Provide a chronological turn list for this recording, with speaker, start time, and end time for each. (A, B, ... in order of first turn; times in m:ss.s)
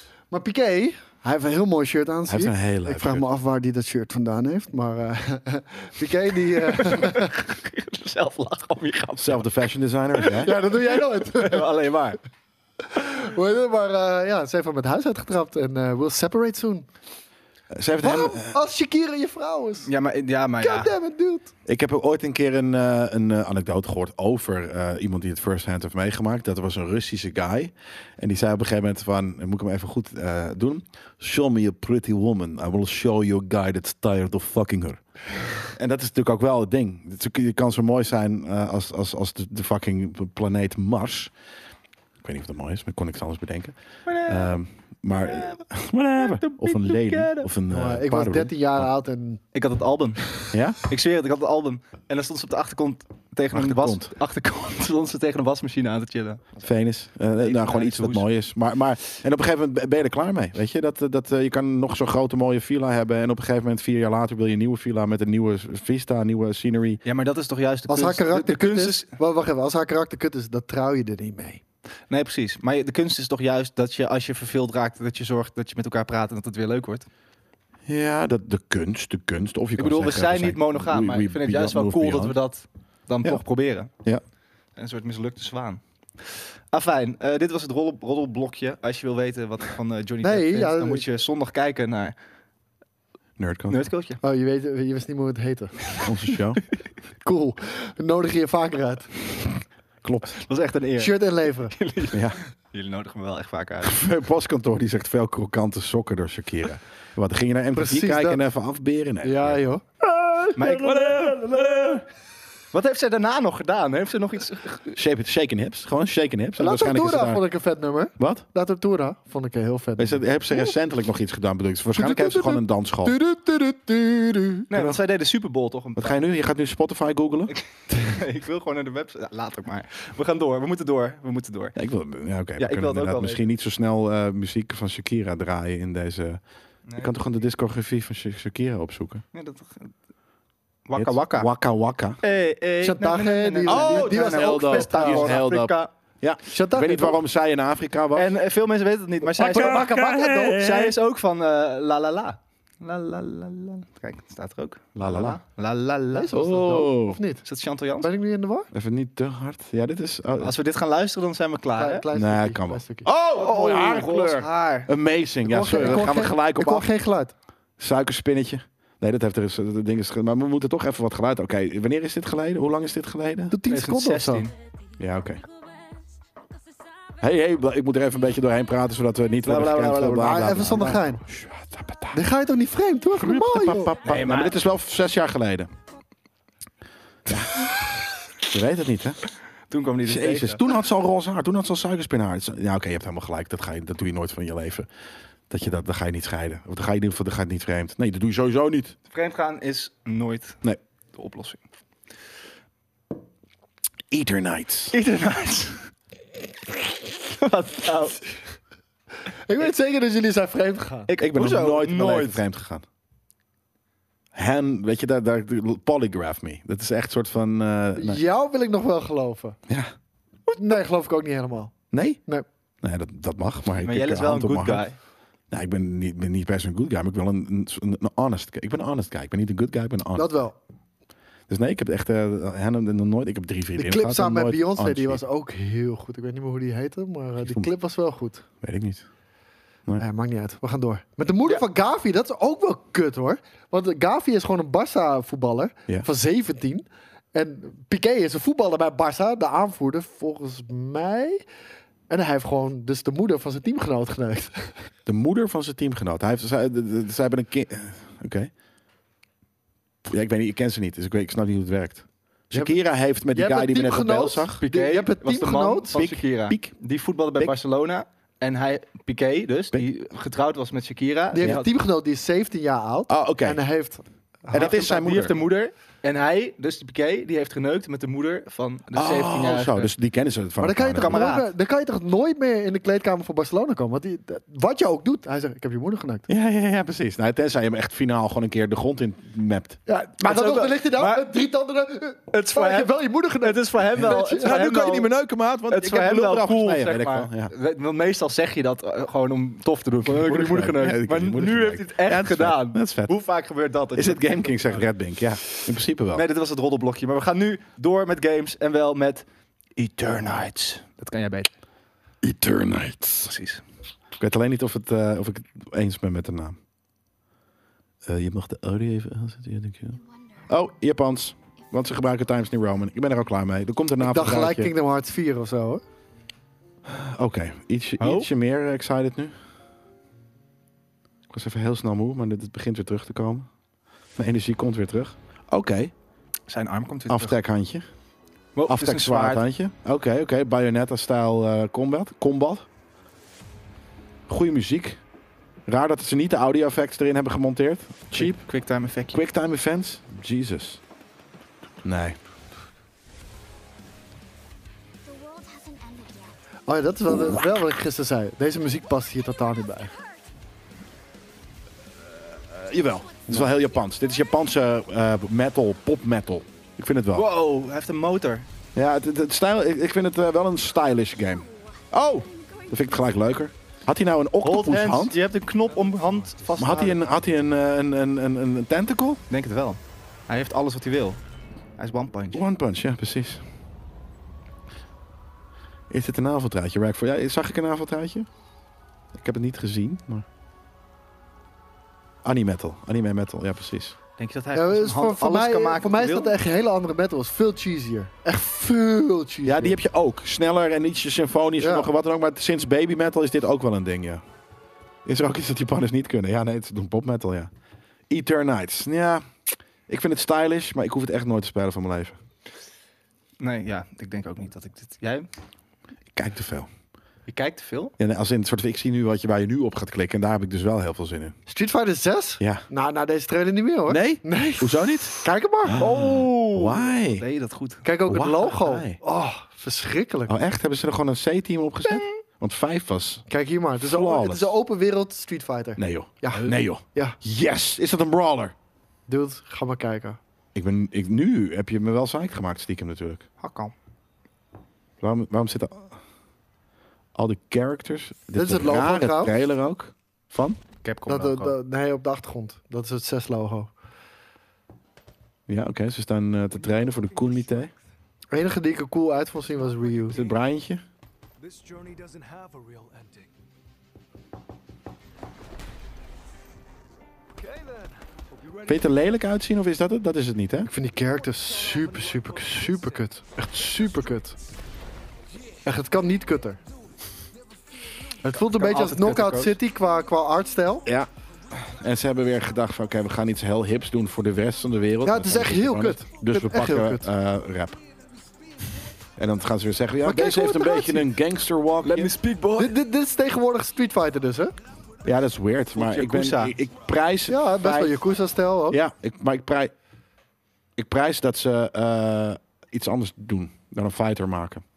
0:00.3-0:07.4 A
0:02.3-0:03.2 B
0:06.6-0:09.5 C
0:09.2-0:10.6 B
0:10.1-0:12.2 C
0:10.4-0:11.7 A
0:12.8-0:16.9 A
0:17.7-0:18.6 B
0:18.0-0:19.9 A
0:19.9-0:20.9 C
0:20.6-0:21.5 A
0:21.6-0:35.0 B
0:35.6-0:41.3 B
0:42.2-0:48.9 B
0:44.0-0:44.6 C
0:45.2-0:45.6 C
0:46.2-0:47.5 C
0:47.7-0:49.4 A
0:49.5-0:56.4 C
0:50.5-0:50.8 B
0:53.5-0:54.1 B
0:56.6-1:07.0 B
0:57.4-0:58.2 C
1:07.0-1:09.1 C
1:07.9-1:11.6 A
1:12.1-1:17.1 C
1:17.9-1:22.4 B
1:19.8-1:23.9 C
1:23.2-1:24.2 B
1:24.8-1:32.1 C
1:30.2-1:31.0 A
1:33.4-1:33.8 B
1:33.7-1:34.2 C
1:34.2-1:35.9 A
1:36.0-1:36.6 B
1:37.2-1:39.2 A
1:40.0-1:40.3 B
1:40.4-1:44.0 C
1:41.0-1:41.7 A
1:42.1-1:42.4 B
1:43.8-1:49.6 B
1:47.7-1:48.4 A
1:49.2-1:51.3 A
1:50.6-1:51.5 C
1:50.9-1:52.0 B
1:52.7-1:55.0 C
1:54.9-1:57.4 B
1:56.6-2:00.7 A
1:58.2-1:58.4 B
2:00.0-2:03.2 B
2:01.9-2:04.7 A
2:04.7-2:06.2 C
2:06.0-2:07.5 B
2:07.5-2:11.7 C
2:11.7-2:16.4 B
2:12.6-2:13.4 C
2:16.9-2:17.1 C
2:17.0-2:19.2 B
2:19.3-2:19.9 C
2:20.9-2:21.5 C
2:21.0-2:22.2 B
2:22.2-2:25.9 C
2:22.8-2:25.4 A
2:23.6-2:28.3 B
2:26.5-2:27.2 A
2:28.1-2:29.9 C
2:29.3-2:30.7 A
2:29.5-2:30.9 B
2:30.5-2:36.3 C
2:34.9-2:35.4 B
2:36.1-2:37.4 A
2:36.3-2:37.2 B
2:37.4-2:38.1 C
2:38.0-2:38.7 A
2:38.7-2:40.5 B
2:40.4-2:42.0 C
2:41.7-2:43.1 A
2:42.1-2:46.9 B
2:43.3-2:44.9 C
2:45.4-2:47.3 A
2:45.8-2:46.3 C
2:47.8-2:53.6 B
2:53.5-2:54.5 A
2:53.7-2:54.5 C
2:55.0-2:55.4 B
2:55.7-2:56.0 D
2:57.2-3:02.2 B
2:59.4-3:00.5 C
3:00.1-3:01.2 A
3:02.1-3:04.0 A
3:03.1-3:05.7 B
3:04.0-3:04.6 C
3:07.3-3:07.7 B
3:08.4-3:09.2 B
3:09.7-3:10.6 C
3:10.0-3:14.9 B
3:15.5-3:19.0 B
3:19.1-3:20.6 C
3:21.1-3:21.6 C
3:24.1-3:24.9 B
3:24.9-3:25.9 C
3:27.1-3:28.2 C
3:29.5-3:31.1 A
3:31.1-3:32.4 C
3:31.2-3:32.8 B
3:34.3-3:38.2 B
3:38.0-3:39.6 A
3:40.6-3:41.7 A
3:41.9-3:42.2 B
3:42.8-3:44.9 B
3:43.8-3:45.0 C
3:45.5-3:50.3 B
3:50.1-3:50.6 A
3:51.5-3:55.2 B
3:53.8-3:58.4 A
3:57.4-3:57.7 B
3:58.6-3:59.0 B
4:00.0-4:11.4 A
4:12.1-4:14.8 A
4:15.0-4:18.5 B
4:20.0-4:24.6 B
4:23.3-4:26.0 A
4:24.6-4:31.7 C
4:25.9-4:27.5 B
4:31.3-4:34.9 A
4:33.1-4:33.6 B
4:34.5-4:35.3 B
4:34.5-4:39.9 C
4:38.9-4:41.2 B
4:40.6-4:46.3 A
4:40.9-4:41.5 C
4:46.3-4:49.8 B
4:49.9-4:54.6 A
4:50.2-4:51.3 C
4:52.3-4:55.1 C
4:54.0-4:57.5 B
4:55.7-5:04.9 C
5:00.0-5:03.1 B
5:03.9-5:06.2 B
5:06.1-5:09.2 C
5:09.8-5:11.5 C
5:12.2-5:13.3 B
5:13.2-5:13.6 C
5:14.1-5:16.6 B
5:18.0-5:24.7 B
5:20.0-5:20.4 D
5:24.0-5:25.8 A
5:26.8-5:29.4 B
5:28.0-5:28.3 C
5:31.3-5:33.5 B
5:34.2-5:35.9 B
5:36.5-5:37.4 C
5:37.1-5:37.9 B
5:38.6-5:39.4 C
5:38.7-5:42.6 B
5:44.3-5:45.0 B
5:45.6-5:48.5 B
5:48.1-5:49.2 C
5:49.1-5:50.8 B
5:51.8-5:52.2 B
5:55.0-5:56.4 D
5:56.7-5:59.9 A
5:57.1-5:57.4 B
6:02.4-6:07.3 B
6:03.2-6:03.9 D
6:07.1-6:08.4 C
6:08.7-6:15.2 B
6:11.4-6:13.2 D
6:14.4-6:17.0 C
6:15.3-6:17.4 E
6:16.6-6:19.2 B
6:19.3-6:21.2 C
6:21.8-6:22.4 C
6:22.3-6:23.4 B
6:25.9-6:28.3 B
6:29.1-6:30.2 B
6:32.2-6:34.0 B
6:34.2-6:36.3 C
6:34.5-6:39.8 A
6:39.4-6:44.2 B
6:41.6-6:41.9 A
6:45.0-6:47.5 B
6:48.1-6:49.3 B
6:49.9-6:52.2 B
6:53.4-6:55.3 C
6:56.1-6:56.7 B
6:57.3-6:57.9 C
6:58.0-7:01.4 B
7:01.5-7:05.8 A
7:02.4-7:02.6 B
7:03.9-7:07.2 B
7:05.8-7:07.8 C
7:07.8-7:10.3 A
7:08.0-7:09.0 B
7:10.3-7:13.2 B
7:11.9-7:12.2 C
7:13.3-7:17.2 A
7:13.8-7:14.5 B
7:15.8-7:18.6 B
7:19.1-7:20.2 A
7:20.6-7:23.2 B
7:23.4-7:23.7 C
7:25.0-7:26.0 B
7:27.1-7:30.6 B
7:28.3-7:29.4 A
7:30.8-7:31.6 C
7:31.0-7:33.7 A
7:35.5-7:37.7 B
7:36.6-7:37.8 E
7:38.3-7:40.2 A
7:39.4-7:40.4 E
7:40.1-7:40.8 B
7:41.4-7:43.3 E
7:47.3-7:49.2 E
7:48.6-7:50.7 B
7:50.6-7:54.4 A
7:51.3-7:54.1 E
7:55.6-7:56.6 A
7:58.2-8:00.9 A
7:58.4-7:59.6 C
8:00.8-8:07.8 B
8:05.0-8:07.1 A
8:09.2-8:12.1 B
8:10.0-8:11.1 A
8:11.8-8:12.7 C
8:12.6-8:14.6 A
8:15.0-8:18.0 B
8:15.7-8:16.6 C
8:17.3-8:18.8 A
8:18.7-8:19.7 B
8:20.8-8:24.6 B